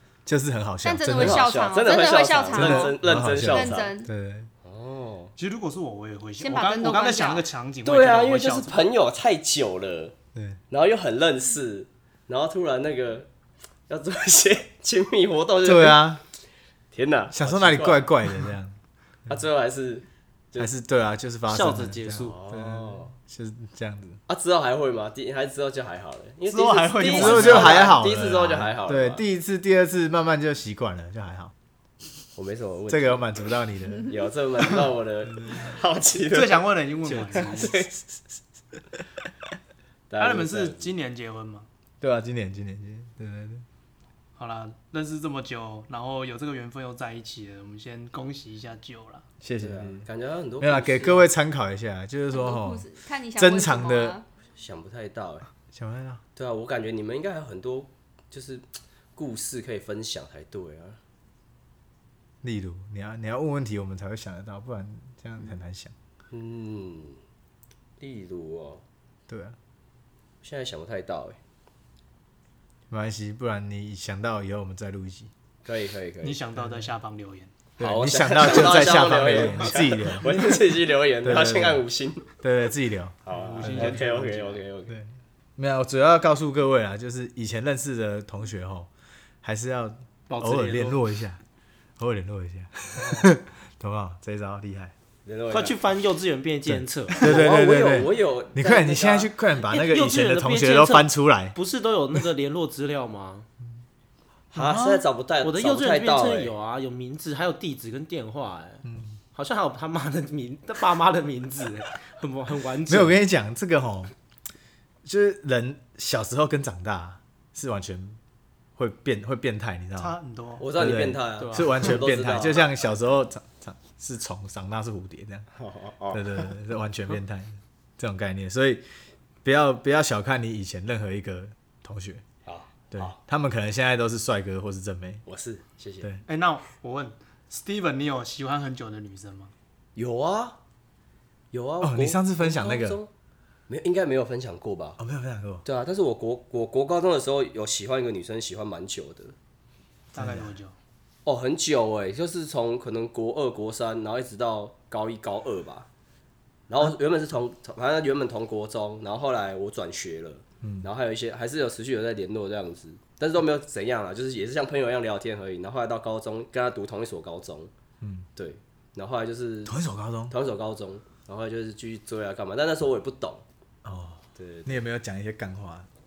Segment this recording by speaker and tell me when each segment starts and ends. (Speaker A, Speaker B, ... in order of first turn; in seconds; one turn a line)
Speaker A: 0.3-1.5
Speaker B: 0.8-4.1
Speaker C: 1.1-3.9
Speaker A: 2.5-4.5
Speaker C: 4.6-5.3
Speaker D: 5.4-8.8
Speaker B: 6.4-7.5
Speaker C: 7.8-10.1
Speaker A: 10.3-10.6
Speaker C: 10.7-13.3
Speaker C: 13.9-16.1
Speaker A: 15.6-16.2
Speaker C: 16.9-18.1
Speaker A: 17.3-18.8
Speaker C: 19.3-20.7
Speaker A: 20.6-24.2
Speaker E: 21.5-22.4
Speaker C: 22.2-23.1
Speaker C: 24.3-29.2
Speaker D: 26.5-27.9
Speaker A: 27.0-31.5
Speaker C: 32.4-33.2
Speaker A: 32.9-34.1
Speaker C: 34.1-36.6
Speaker D: 36.2-37.7
Speaker C: 37.3-38.0
Speaker C: 40.1-40.8
Speaker D: 40.2-41.7
Speaker A: 42.0-43.6
Speaker D: 44.4-49.3
Speaker A: 49.4-50.1
Speaker C: 49.6-51.3
Speaker A: 50.6-52.9
Speaker B: 52.3-54.2
Speaker A: 53.4-54.1
Speaker C: 54.6-55.5
Speaker A: 55.7-56.2
Speaker C: 56.4-58.6
Speaker C: 59.1-61.0
Speaker A: 62.4-65.9
Speaker C: 66.3-67.2
Speaker C: 68.0-68.8
Speaker A: 69.3-69.6
Speaker C: 70.4-71.4
Speaker A: 72.9-75.3
Speaker C: 75.6-76.4
Speaker D: 76.2-77.5
Speaker A: 77.8-80.3
Speaker C: 77.8-82.3
Speaker A: 81.2-81.8
Speaker A: 82.4-84.0
Speaker C: 83.3-84.9
Speaker D: 83.3-84.5
Speaker E: 83.7-84.0
Speaker A: 84.9-88.9
Speaker A: 89.4-91.4
Speaker E: 90.3-91.0
Speaker A: 92.0-94.9
Speaker C: 95.2-95.8
Speaker E: 95.5-97.4
Speaker A: 96.7-101.6
Speaker C: 97.2-99.3
Speaker E: 99.6-103.5
Speaker C: 104.5-106.5
Speaker D: 104.5-105.0
Speaker E: 105.4-113.2
Speaker A: 108.8-109.2
Speaker A: 112.9-114.1
Speaker A: 115.0-118.2
Speaker A: 118.8-120.1
Speaker D: 120.0-120.7
Speaker C: 120.6-122.7
Speaker A: 120.7-125.5
Speaker E: 121.4-121.8
Speaker C: 125.6-126.5
Speaker A: 126.1-128.8
Speaker A: 129.4-132.2
Speaker C: 132.4-133.1
Speaker A: 132.9-135.2
Speaker C: 135.3-136.1
Speaker D: 136.3-139.5
Speaker C: 140.0-140.6
Speaker C: 141.5-143.1
Speaker A: 141.8-143.0
Speaker C: 143.7-145.0
Speaker A: 145.0-145.6
Speaker C: 145.6-149.3
Speaker A: 150.1-150.6
Speaker D: 150.1-150.7
Speaker C: 151.2-155.9
Speaker C: 156.7-167.7
Speaker A: 160.6-160.9
Speaker A: 168.0-168.3
Speaker C: 168.4-169.8
Speaker A: 169.7-170.3
Speaker C: 170.3-173.4
Speaker A: 173.8-175.9
Speaker C: 174.4-174.7